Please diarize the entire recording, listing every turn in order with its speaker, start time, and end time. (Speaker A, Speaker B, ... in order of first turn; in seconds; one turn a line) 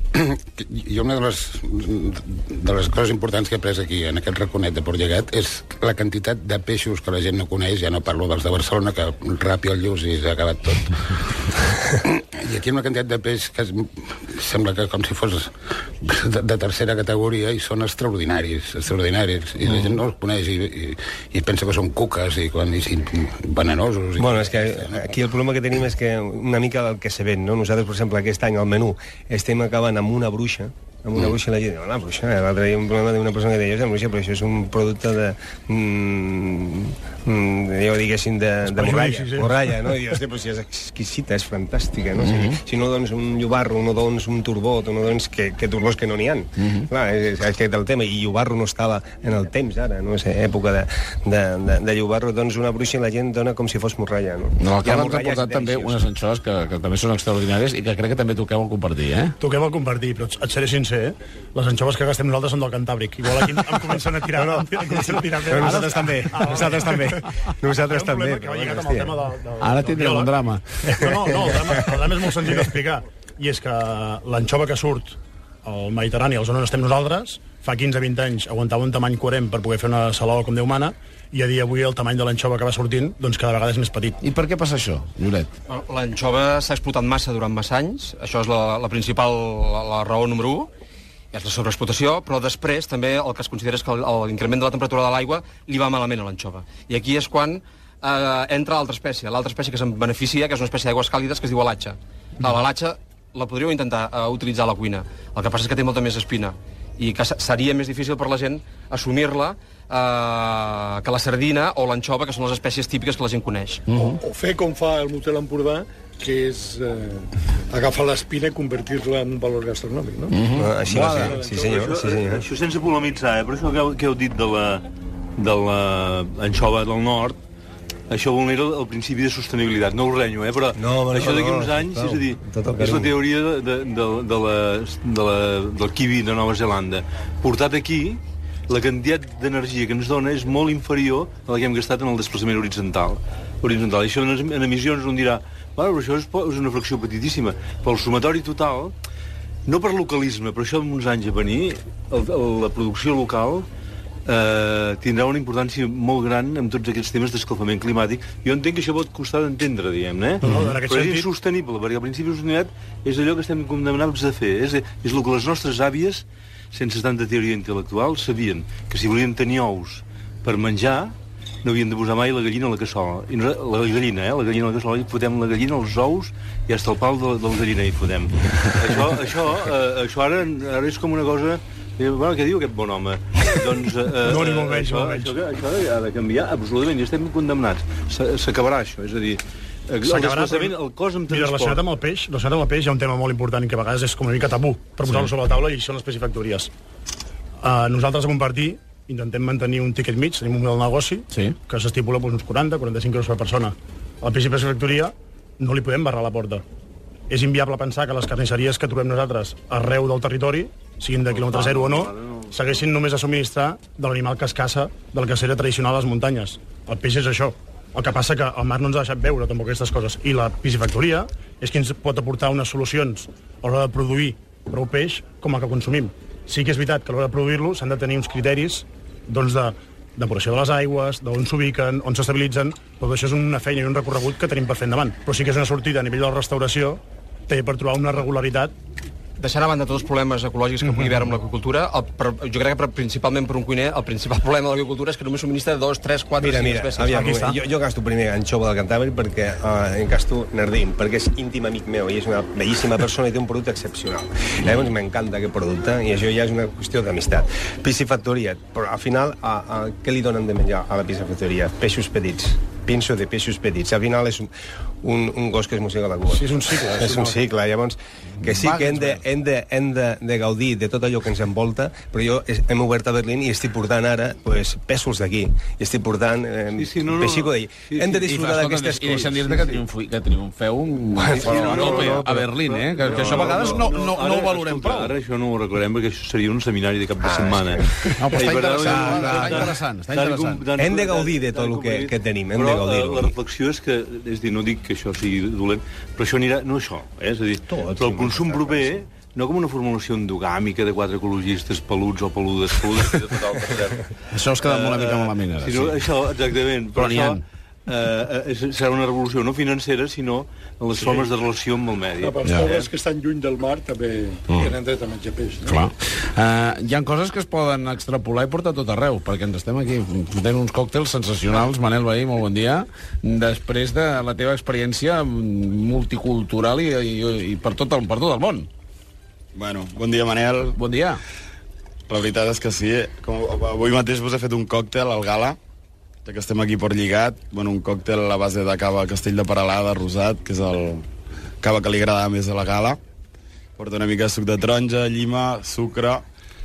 Speaker A: 0.1-11.5
Speaker A: 12.0-24.9
Speaker B: 24.1-56.0
Speaker C: 38.7-39.5
Speaker D: 42.2-42.5
Speaker D: 46.6-46.8
Speaker D: 54.6-59.3
Speaker C: 59.4-84.2
Speaker B: 64.3-69.2
Speaker D: 65.6-66.1
Speaker D: 69.6-70.7
Speaker B: 71.0-72.6
Speaker D: 84.2-85.5
Speaker A: 85.9-86.7
Speaker E: 86.8-87.7
Speaker E: 88.2-88.5
Speaker A: 89.5-89.9
Speaker A: 91.4-92.0
Speaker E: 92.9-93.1
Speaker A: 93.9-94.2
Speaker E: 98.4-98.7
Speaker E: 102.5-102.9
Speaker E: 104.6-110.1
Speaker A: 110.6-110.9
Speaker E: 111.1-113.5
Speaker D: 113.9-114.2
Speaker F: 114.0-121.9
Speaker D: 120.3-121.4
Speaker B: 120.5-122.4
Speaker G: 121.7-124.8
Speaker G: 125.4-127.4
Speaker G: 128.1-148.9
Speaker B: 130.7-133.2
Speaker G: 149.7-153.7
Speaker G: 154.2-191.8
Speaker C: 160.4-161.3
Speaker C: 184.2-185.3
Speaker C: 190.0-190.7
Speaker C: 191.3-196.7
Speaker C: 197.6-206.6
Speaker D: 201.3-201.6
Speaker C: 207.3-238.7
Speaker G: 211.6-212.1
Speaker E: 239.4-241.7
Speaker C: 240.8-241.3
Speaker A: 242.9-243.7
Speaker A: 244.9-245.2
Speaker E: 245.7-247.2
Speaker B: 246.4-264.5
Speaker C: 247.1-247.6
Speaker B: 265.0-279.8
Speaker C: 266.3-267.4
Speaker D: 268.4-269.2
Speaker G: 276.8-278.3
Speaker D: 278.3-285.1
Speaker B: 281.1-283.8
Speaker G: 281.4-304.1
Speaker B: 287.3-288.1
Speaker D: 288.2-290.6
Speaker B: 288.8-289.7
Speaker B: 290.7-293.3
Speaker B: 297.7-299.0
Speaker D: 304.3-306.0
Speaker G: 304.6-312.9
Speaker D: 306.9-307.4
Speaker F: 311.0-311.2
Speaker F: 312.2-315.8
Speaker D: 312.4-312.7
Speaker D: 315.6-328.7
Speaker H: 329.5-330.7
Speaker D: 330.8-331.2
Speaker H: 332.1-335.6
Speaker H: 336.2-341.0
Speaker H: 341.6-343.0
Speaker H: 343.8-346.2